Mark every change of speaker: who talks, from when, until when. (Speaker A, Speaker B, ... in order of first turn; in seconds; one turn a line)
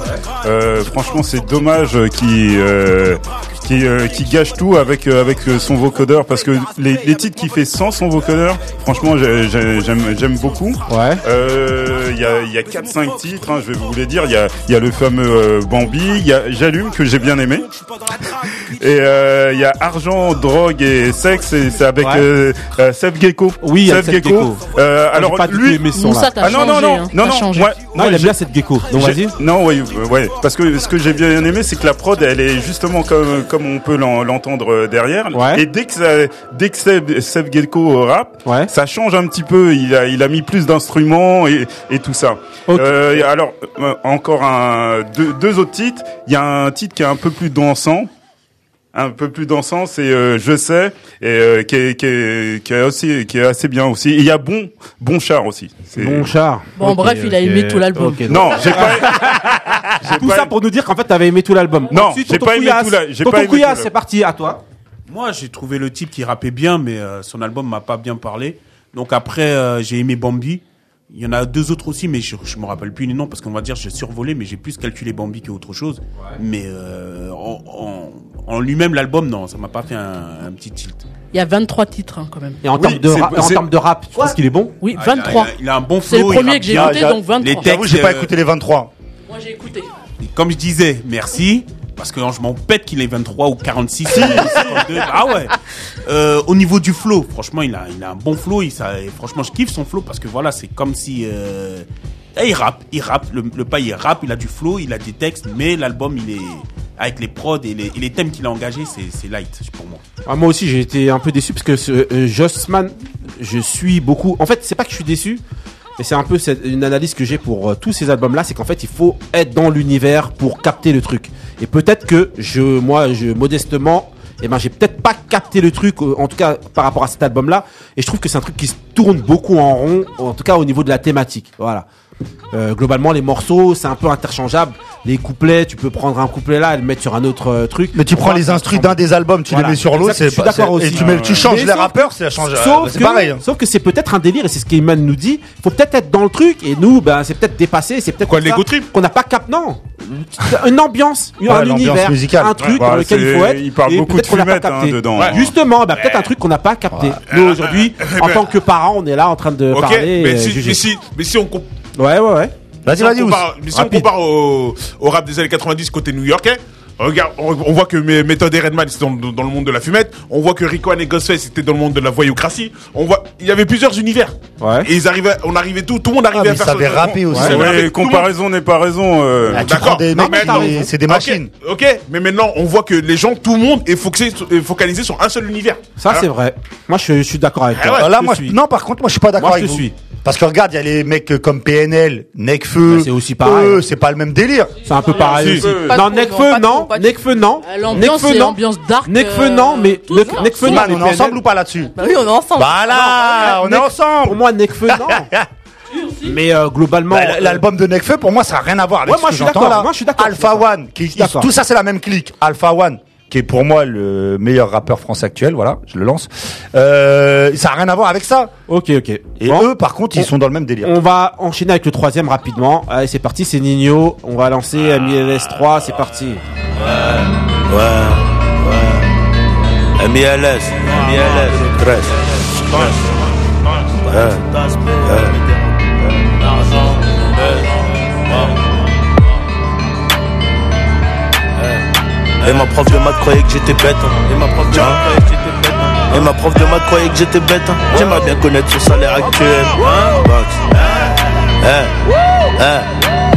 Speaker A: 0.4-17.7
Speaker B: 10.9-11.2
Speaker A: 18.7-28.4
Speaker B: 22.0-22.3
Speaker B: 23.6-26.7
Speaker C: 25.9-27.7
Speaker B: 27.9-29.4
Speaker A: 28.9-48.1
Speaker B: 35.3-35.6
Speaker B: 42.7-43.2
Speaker A: 48.9-56.3
Speaker B: 56.0-59.5
Speaker C: 56.8-58.6
Speaker A: 58.3-60.5
Speaker B: 60.0-64.6
Speaker A: 61.9-63.9
Speaker D: 65.1-81.0
Speaker C: 81.3-82.6
Speaker B: 82.6-84.7
Speaker A: 82.8-83.6
Speaker C: 84.8-87.7
Speaker D: 84.9-88.3
Speaker E: 86.7-88.9
Speaker C: 89.3-89.9
Speaker D: 90.2-110.0
Speaker A: 94.1-94.7
Speaker B: 110.2-115.4
Speaker B: 116.0-131.8
Speaker B: 132.5-160.8
Speaker E: 137.9-143.4
Speaker A: 140.9-141.5
Speaker F: 148.2-148.9
Speaker E: 151.4-152.6
Speaker A: 152.7-155.5
Speaker F: 155.1-155.4
Speaker F: 155.9-156.3
Speaker F: 157.2-158.5
Speaker F: 159.7-161.7
Speaker B: 161.9-162.5
Speaker E: 162.8-163.5
Speaker F: 162.8-178.3
Speaker B: 163.7-164.1
Speaker B: 174.6-174.9
Speaker E: 176.3-177.9
Speaker B: 177.3-177.6
Speaker A: 177.4-179.7
Speaker E: 179.5-181.5
Speaker F: 179.5-186.3
Speaker B: 180.1-180.9
Speaker B: 186.0-188.6
Speaker F: 187.7-188.1
Speaker E: 187.9-194.7
Speaker B: 189.4-189.9
Speaker B: 192.9-193.8
Speaker B: 194.8-201.4
Speaker A: 195.2-196.0
Speaker F: 195.2-195.8
Speaker G: 195.8-197.2
Speaker C: 197.6-201.0
Speaker G: 200.1-200.4
Speaker E: 200.6-201.9
Speaker G: 201.9-203.6
Speaker E: 202.6-205.4
Speaker B: 203.3-205.3
Speaker C: 205.9-206.3
Speaker B: 206.2-207.6
Speaker E: 207.1-218.5
Speaker B: 209.1-211.5
Speaker B: 218.7-220.3
Speaker E: 219.4-220.9
Speaker B: 220.8-226.4
Speaker H: 226.8-229.1
Speaker H: 230.0-233.0
Speaker H: 234.1-237.8
Speaker H: 238.3-238.6
Speaker H: 242.4-250.7
Speaker H: 251.6-251.9
Speaker H: 252.6-252.9